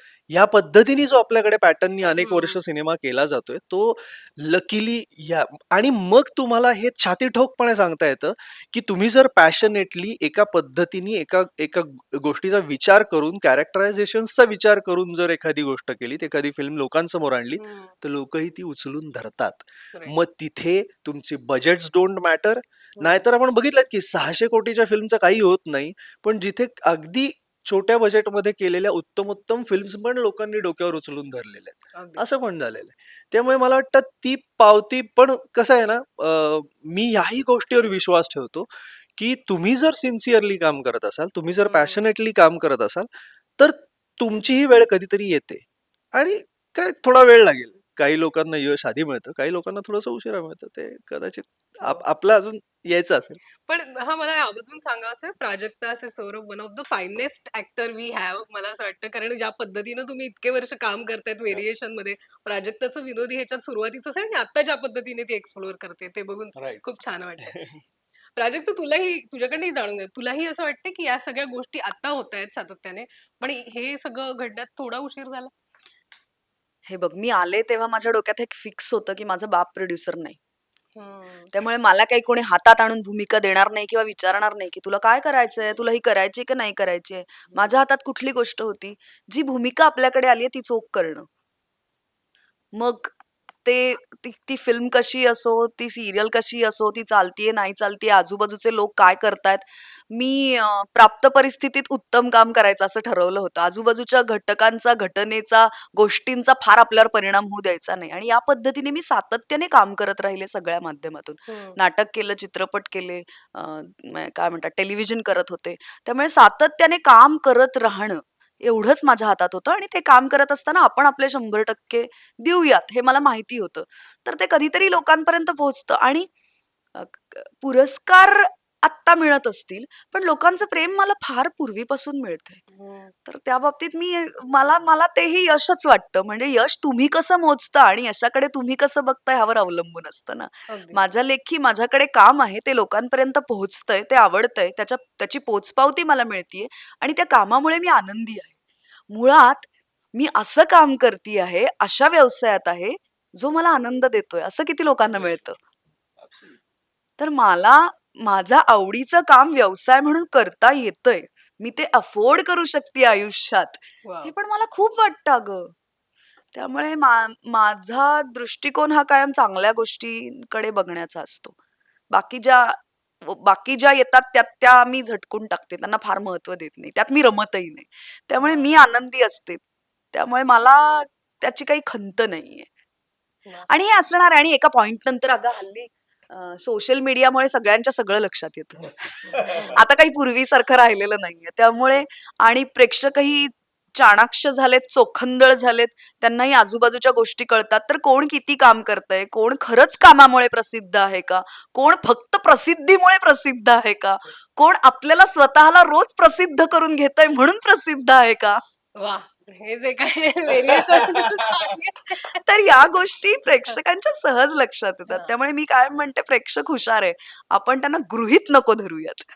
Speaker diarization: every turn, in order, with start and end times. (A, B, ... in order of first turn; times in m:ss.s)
0:00.3-0:53.4 A
0:02.0-0:02.6 B
0:17.6-0:17.9 B
0:23.0-0:23.2 B
0:31.9-0:32.2 B
0:41.6-0:42.0 B
0:53.6-1:07.6 B
1:06.6-1:06.8 A
1:07.4-1:07.8 A
1:08.4-1:15.5 B
1:16.8-1:20.4 C
1:21.0-1:21.5 B
1:21.5-1:31.3 C
1:32.7-2:06.3 C
1:51.5-1:51.8 B
2:06.9-2:12.6 C
2:12.7-2:13.1 B
2:13.2-2:28.6 C
2:20.7-2:21.0 B
2:29.1-2:35.6 C
2:37.2-2:45.7 C
2:44.0-2:44.3 B
2:46.5-2:51.5 C
2:52.1-2:59.6 C
2:58.4-2:58.8 B
3:00.1-3:02.7 C
3:03.7-3:28.6 C
3:09.4-3:09.8 B
3:29.0-3:32.4 B
3:32.3-3:39.2 C